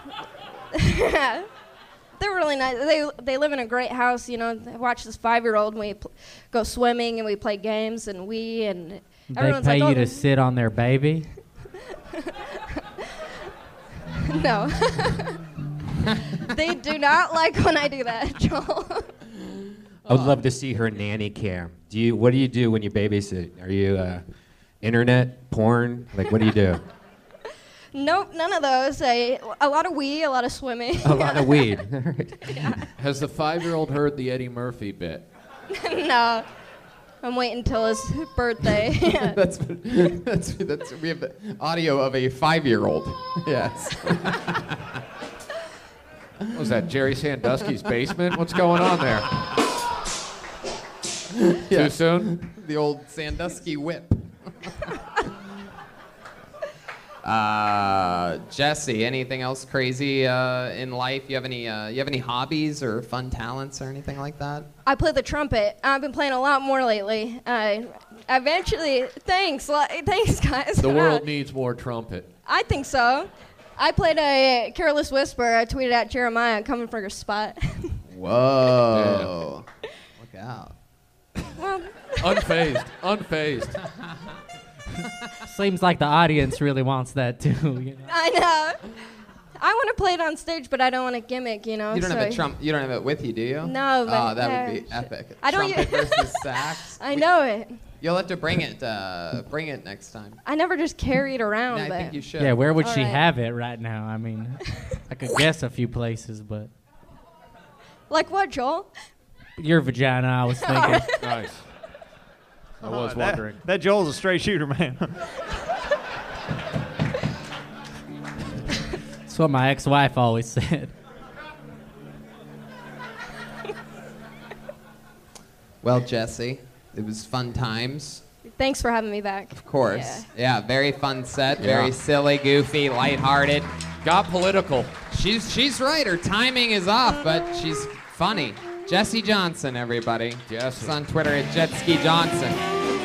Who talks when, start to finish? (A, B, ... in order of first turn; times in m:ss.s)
0:00.7-0:01.5 A
0:02.2-0:10.2 A
0:09.3-0:11.3 B
0:12.2-0:12.6 A
0:14.2-0:15.4 A
0:16.4-0:19.1 A
0:20.1-0:24.2 C
0:20.1-0:20.4 D
0:24.8-0:26.8 C
0:27.9-0:31.7 A
0:31.0-0:32.8 C
0:32.4-0:32.8 A
0:33.0-0:35.2 E
0:35.7-0:36.5 A
0:37.2-0:39.4 A
0:38.9-0:44.8 D
0:46.5-0:49.3 E
0:51.3-0:55.0 D
0:51.7-0:52.4 E
0:57.2-1:04.7 D
1:04.8-1:11.3 A
1:10.8-1:12.3 E
1:12.5-1:18.0 A
1:18.1-1:19.6 D
1:18.9-1:19.3 E
1:20.2-1:20.7 D
1:21.6-1:22.5 A
1:22.2-1:23.8 E
1:25.5-1:28.1 B
1:28.1-1:28.9 A
1:29.6-1:32.4 A
1:31.9-1:37.3 D
1:33.6-1:37.8 A
1:38.0-1:40.4 D
1:40.4-1:42.2 A
1:41.7-1:42.6 D
1:42.4-1:46.7 B
1:42.8-1:43.2 A
1:48.1-1:48.9 A
1:49.6-1:51.1 B
1:50.6-1:51.1 A
1:51.2-1:51.6 E
1:52.8-1:53.6 E
1:52.8-1:55.2 F
1:59.3-2:00.9 B
2:05.8-2:08.2 D
2:08.6-2:10.3 A
2:09.6-2:13.7 D
2:11.6-2:11.9 E
2:14.0-2:15.0 E
2:15.1-2:22.6 D
2:20.5-2:21.0 E